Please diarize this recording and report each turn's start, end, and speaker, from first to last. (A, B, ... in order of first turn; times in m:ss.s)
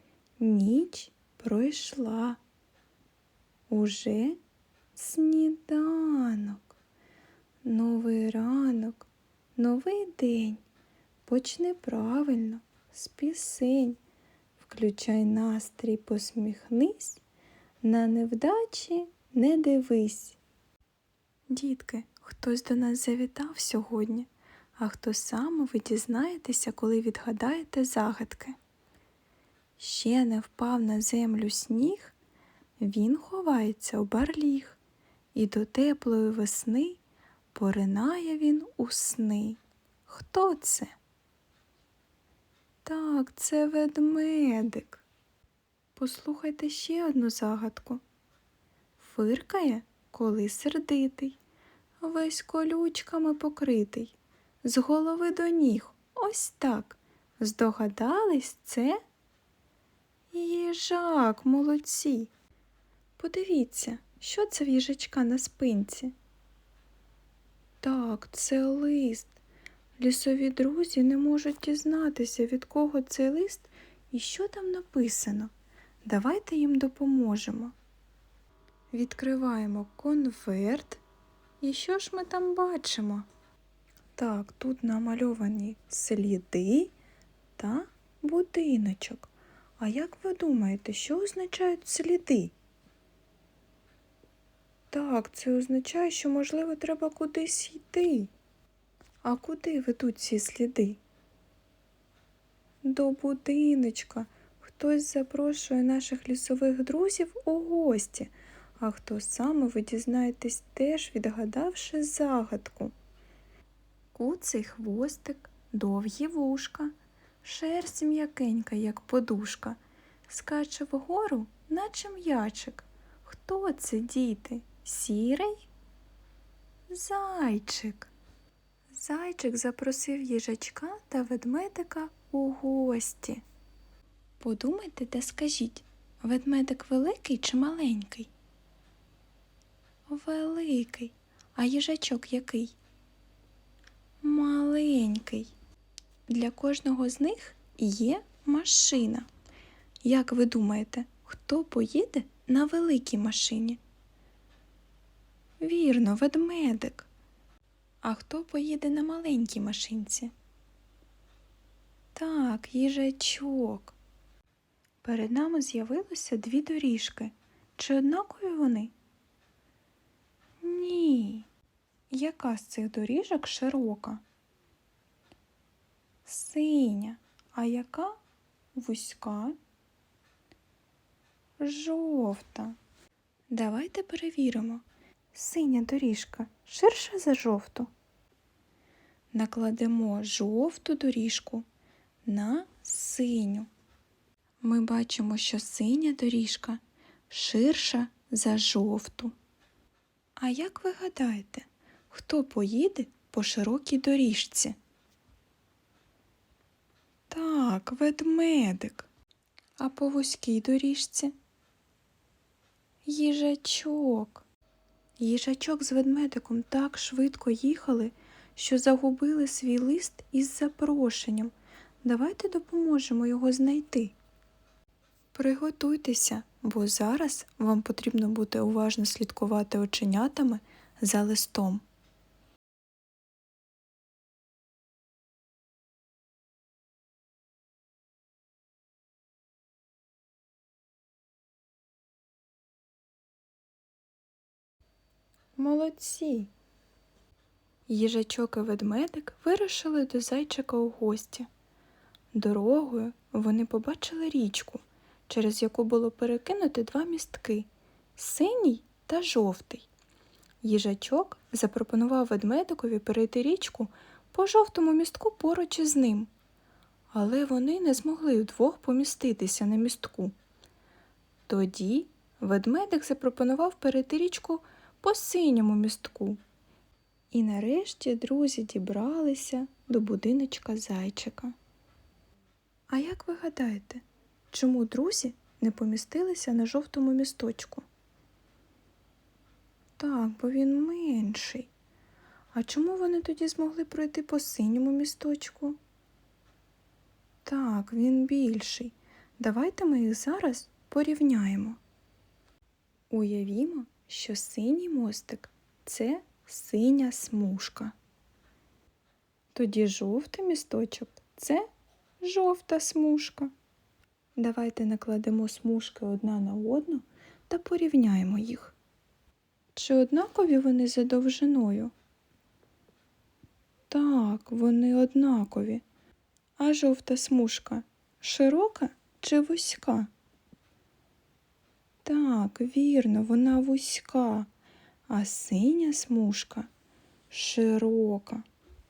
0:00.4-0:02.4 A
0:03.7-0:04.4 A
0:04.9-0:06.7 A
0:07.6-0:10.6 A
0:11.2-0:14.0 A
0:14.6-0:17.2 A
0:17.8-0:20.4 A
0:21.5-0:28.6 A
0:29.8-0:32.1 A
0:32.8-0:34.8 A
0:35.3-0:37.0 A
0:37.5-0:40.9 A
0:42.8-0:45.0 A
0:46.0-0:48.0 A
0:49.0-0:51.4 A
0:52.0-0:59.0 A
1:00.3-1:02.3 A
1:03.2-1:06.1 A
1:07.8-1:09.4 A
1:10.0-1:15.5 A
1:16.0-1:17.7 A
1:18.9-1:21.0 A
1:21.6-1:23.3 A
1:24.2-1:26.9 A
1:27.6-1:32.5 A
1:34.9-1:38.3 A
1:39.2-1:41.0 A
1:42.8-1:52.9 A
1:54.1-2:05.7 A
2:06.9-2:08.1 A
2:08.9-2:13.4 A
2:14.4-2:18.3 A
2:20.1-2:22.8 A
2:24.2-2:25.5 A
2:26.3-2:29.3 A
2:30.0-2:33.8 A
2:35.6-2:37.1 A
2:38.0-2:40.3 A
2:42.1-2:44.0 A
2:45.0-2:48.9 A
2:50.6-2:51.5 A
2:52.1-2:54.2 A
2:56.2-2:58.2 A
2:58.8-2:59.6 A
3:01.6-3:02.8 A
3:03.5-3:07.9 A
3:09.3-3:11.6 A
3:12.2-3:13.7 A
3:14.6-3:19.3 A
3:20.4-3:24.8 A
3:27.3-3:29.1 A
3:29.8-3:31.3 A
3:33.0-3:34.4 A
3:35.2-3:44.1 A
3:45.3-3:51.8 A
4:05.6-4:06.5 A
4:07.9-4:11.5 A
4:12.3-4:19.9 A
4:20.6-4:26.3 A
4:27.1-4:30.3 A
4:31.5-4:36.4 A
4:37.3-4:41.5 A
4:42.9-4:47.9 A
4:50.0-4:51.7 A
4:52.5-4:55.8 A
4:57.4-5:01.8 A
5:03.1-5:07.9 A
5:09.5-5:11.7 A
5:12.2-5:13.5 A
5:14.4-5:18.8 A
5:19.8-5:21.9 A
5:23.9-5:25.8 A
5:26.6-5:30.1 A
5:32.0-5:34.5 A
5:35.1-5:36.7 A
5:37.3-5:38.4 A